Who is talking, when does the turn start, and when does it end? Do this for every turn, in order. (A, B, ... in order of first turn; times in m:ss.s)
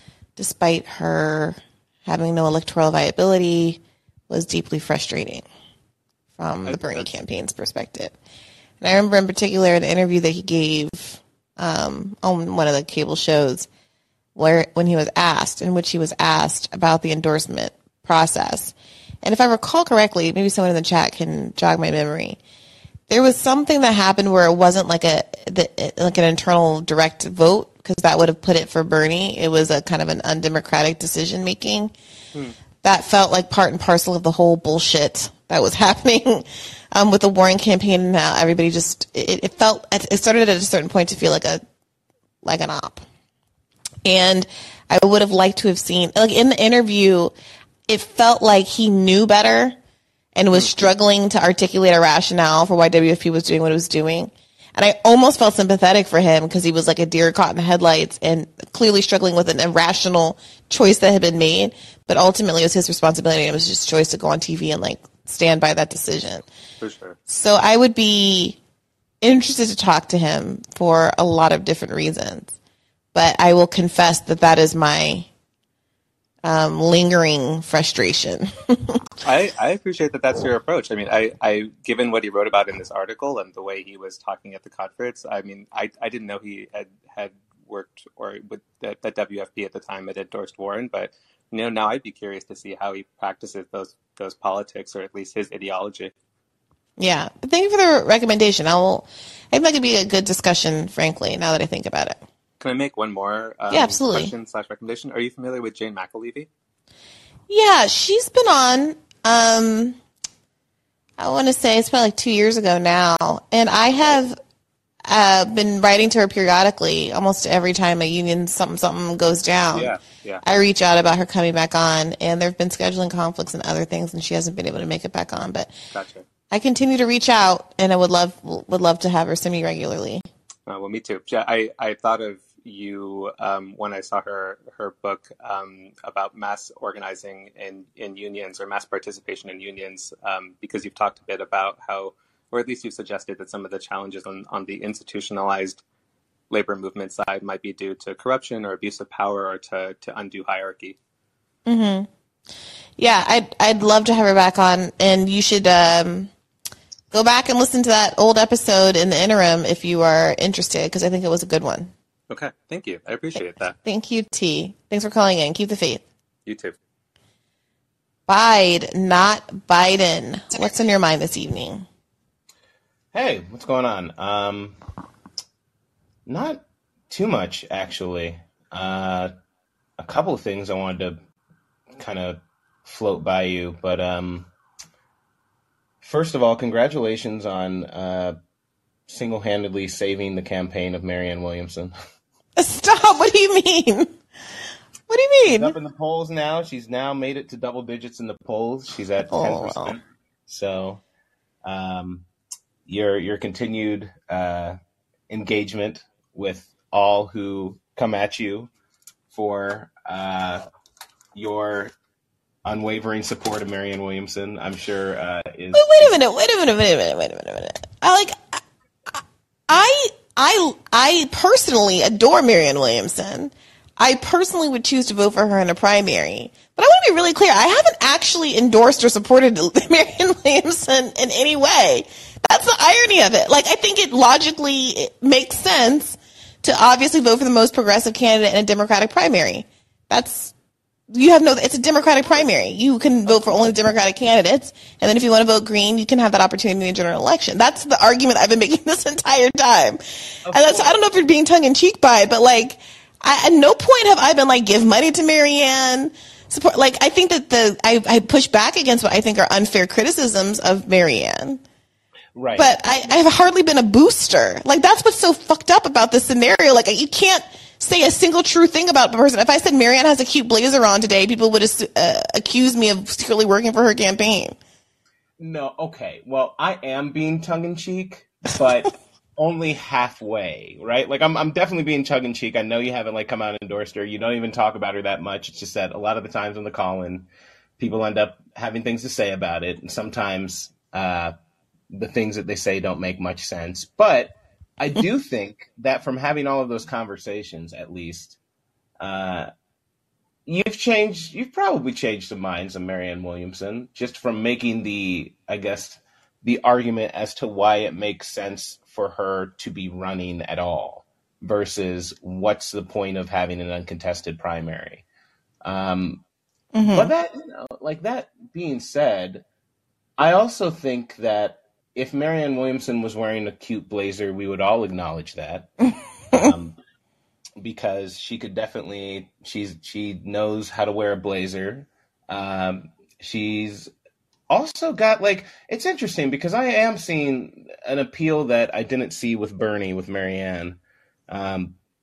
0:00.4-0:05.4 A
0:06.4-0:08.2 A
0:06.6-0:07.1 B
0:08.8-0:13.7 A
0:14.4-0:22.4 A
0:23.1-0:31.9 A
0:32.8-0:41.6 A
0:42.4-0:43.0 A
0:44.0-0:47.3 A
0:47.9-0:49.8 A
0:50.4-1:06.5 A
0:50.5-0:50.8 B
1:06.8-1:07.2 B
1:07.3-1:08.6 A
1:09.2-1:12.6 A
1:13.1-1:15.3 A
1:16.4-1:18.9 A
1:19.2-1:36.1 B
1:37.0-1:42.2 A
1:42.6-1:46.5 B
1:43.7-1:44.3 A
1:47.5-1:50.0 A
1:51.2-1:54.4 A
1:55.1-2:05.7 A
1:59.7-2:00.4 B
2:05.9-2:06.2 B
2:06.5-2:10.2 A
2:10.7-2:25.8 B
2:26.5-2:31.0 B
2:31.7-2:32.1 A
2:33.0-2:36.3 A
2:37.1-2:41.9 A
2:42.3-2:43.7 B
2:43.4-2:46.0 A
2:46.5-2:46.8 B
2:48.3-2:51.8 A
2:53.1-2:54.8 C
2:56.3-2:59.3 C
3:00.0-3:01.2 C
3:02.0-3:04.5 C
3:06.0-3:08.4 C
3:09.1-3:12.0 C
3:12.6-3:14.1 A
3:15.1-3:15.7 A
3:15.5-3:21.0 C
3:19.3-3:20.0 A
3:21.6-3:22.2 C
3:22.9-3:24.8 C
3:25.3-3:28.7 C
3:29.3-3:30.6 C
3:31.4-3:31.9 C
3:32.6-3:36.2 C
3:35.8-4:00.5 A
4:01.1-4:21.6 A
4:10.5-4:11.0 C
4:22.4-4:22.8 C
4:22.6-4:34.6 A
4:35.4-4:47.3 C
4:47.8-4:51.3 C
4:51.9-4:58.4 C
4:59.0-4:59.5 C
5:00.5-5:15.0 C
5:15.6-5:16.2 C
5:16.8-5:17.1 A
5:16.9-5:19.4 C
5:20.2-5:25.7 C
5:26.3-5:26.8 C
5:27.6-5:33.9 C
5:34.5-5:41.8 C